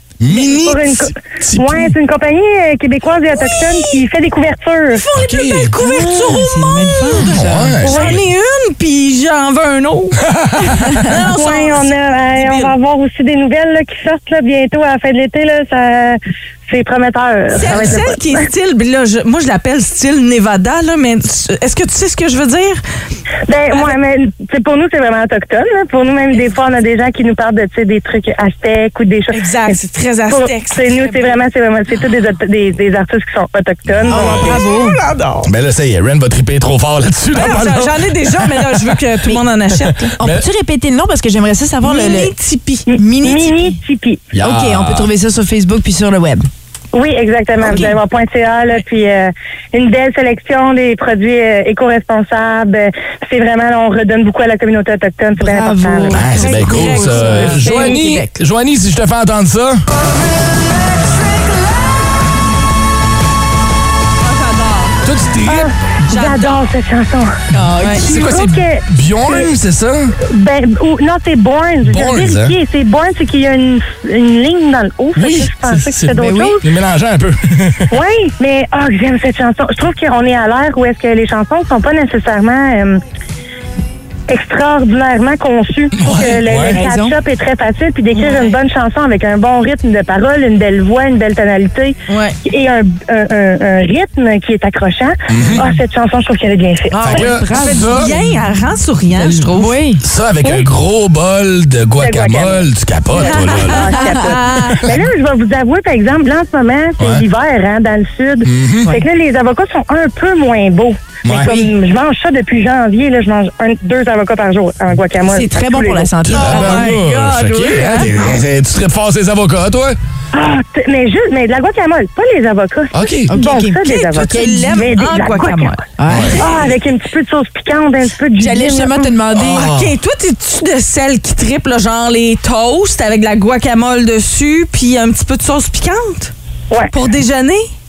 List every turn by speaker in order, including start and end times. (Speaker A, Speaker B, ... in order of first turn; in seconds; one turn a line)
Speaker A: 0.2-1.9
Speaker B: 0.3-5.0
Speaker C: 3.3-4.0
Speaker C: 4.9-12.8
Speaker A: 5.2-5.7
Speaker D: 5.8-7.8
Speaker A: 7.2-8.2
Speaker B: 7.8-8.2
Speaker A: 10.2-11.0
Speaker B: 11.4-16.2
Speaker B: 16.7-18.2
Speaker C: 17.5-22.8
Speaker B: 23.5-29.3
Speaker C: 29.3-31.4
Speaker B: 30.3-34.5
Speaker A: 33.9-34.5
Speaker D: 34.1-35.0
Speaker C: 34.1-35.5
Speaker A: 35.4-39.0
Speaker C: 37.3-40.1
Speaker A: 39.8-40.5
Speaker D: 40.2-42.3
Speaker C: 41.8-42.9
Speaker D: 43.0-43.8
Speaker B: 43.2-44.2
Speaker A: 44.3-45.1
Speaker D: 44.4-46.5
Speaker B: 46.9-56.2
Speaker D: 47.6-48.0
Speaker D: 55.4-57.8
Speaker A: 56.1-59.8
Speaker C: 56.3-58.3
Speaker B: 57.6-58.0
Speaker C: 64.2-65.0
Speaker A: 65.0-65.7
Speaker B: 65.5-67.3
Speaker C: 66.1-66.7
Speaker D: 67.5-68.1
Speaker C: 67.8-68.0
Speaker A: 68.0-70.2
Speaker B: 68.0-68.7
Speaker B: 70.3-76.6
Speaker A: 71.8-72.6
Speaker A: 75.2-77.9
Speaker D: 76.1-76.6
Speaker B: 77.9-83.0
Speaker B: 84.3-91.9
Speaker A: 86.0-86.8
Speaker D: 86.6-87.2
Speaker C: 88.1-88.6
Speaker C: 92.1-92.4
Speaker B: 92.5-97.4
Speaker A: 95.3-95.7
Speaker C: 96.9-99.8
Speaker A: 97.0-98.1
Speaker D: 97.1-98.4
Speaker D: 99.2-100.0
Speaker A: 100.0-104.0
Speaker B: 102.0-102.6
Speaker B: 103.2-116.1
Speaker C: 103.2-104.8
Speaker D: 103.9-104.3
Speaker A: 107.0-107.2
Speaker A: 108.5-108.9
Speaker A: 111.2-111.5
Speaker D: 111.3-111.7
Speaker D: 115.2-117.0
Speaker A: 116.3-120.0
Speaker C: 116.3-118.2
Speaker B: 120.4-125.7
Speaker A: 122.9-123.4
Speaker D: 123.3-124.9
Speaker C: 123.8-125.8
Speaker D: 126.0-126.5
Speaker A: 126.1-126.5
Speaker B: 126.4-129.1
Speaker D: 128.4-129.7
Speaker A: 129.4-129.9
Speaker C: 129.4-136.3
Speaker C: 136.9-137.7